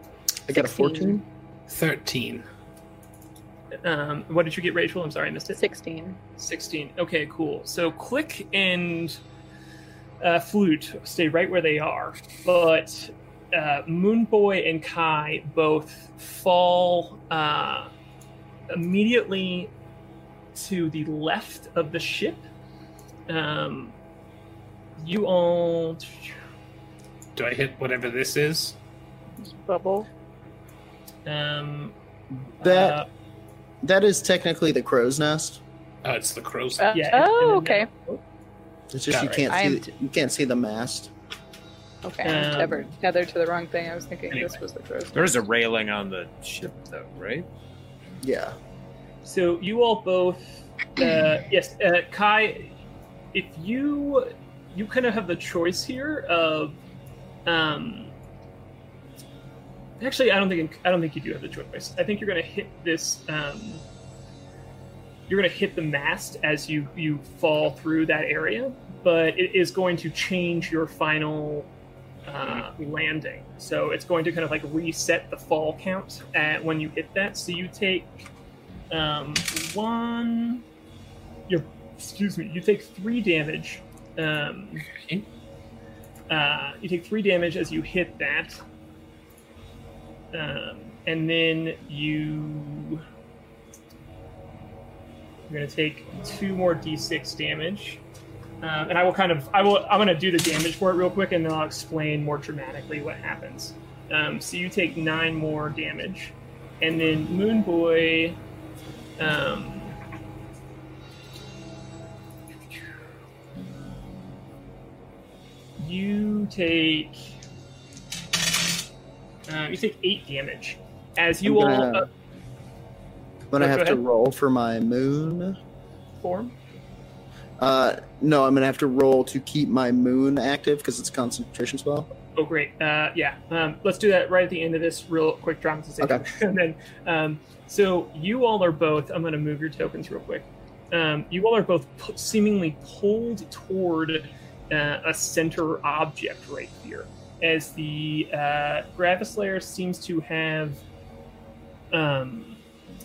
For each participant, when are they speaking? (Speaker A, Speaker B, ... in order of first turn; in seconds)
Speaker A: 0.5-1.2, 32.6-33.0, 33.8-35.6, 38.9-41.1, 48.2-48.5, 121.4-122.1, 123.5-125.6, 127.6-132.1
Speaker B: 0.5-1.2, 5.5-6.2, 29.6-30.1, 36.8-37.9, 39.5-39.8, 42.0-45.4
Speaker C: 1.7-2.4, 27.4-28.8, 36.0-37.0, 39.1-39.4, 84.9-85.2
Speaker D: 3.8-5.6, 6.4-9.2, 10.2-17.9, 18.7-19.7, 20.5-22.4, 23.3-23.9, 25.0-26.4, 31.2-31.9, 32.6-33.1, 36.9-38.2, 42.2-42.9, 49.2-52.7, 53.3-56.8, 57.5-58.1, 60.0-63.8, 65.3-71.7, 72.3-78.3, 78.9-80.6, 81.5-84.8, 86.3-88.6, 90.3-93.0, 95.5-98.0, 98.6-108.4, 109.2-110.0, 115.8-117.3, 119.5-122.1, 123.6-124.0, 126.2-126.5, 132.3-150.8, 151.9-152.6
Speaker E: 45.1-47.5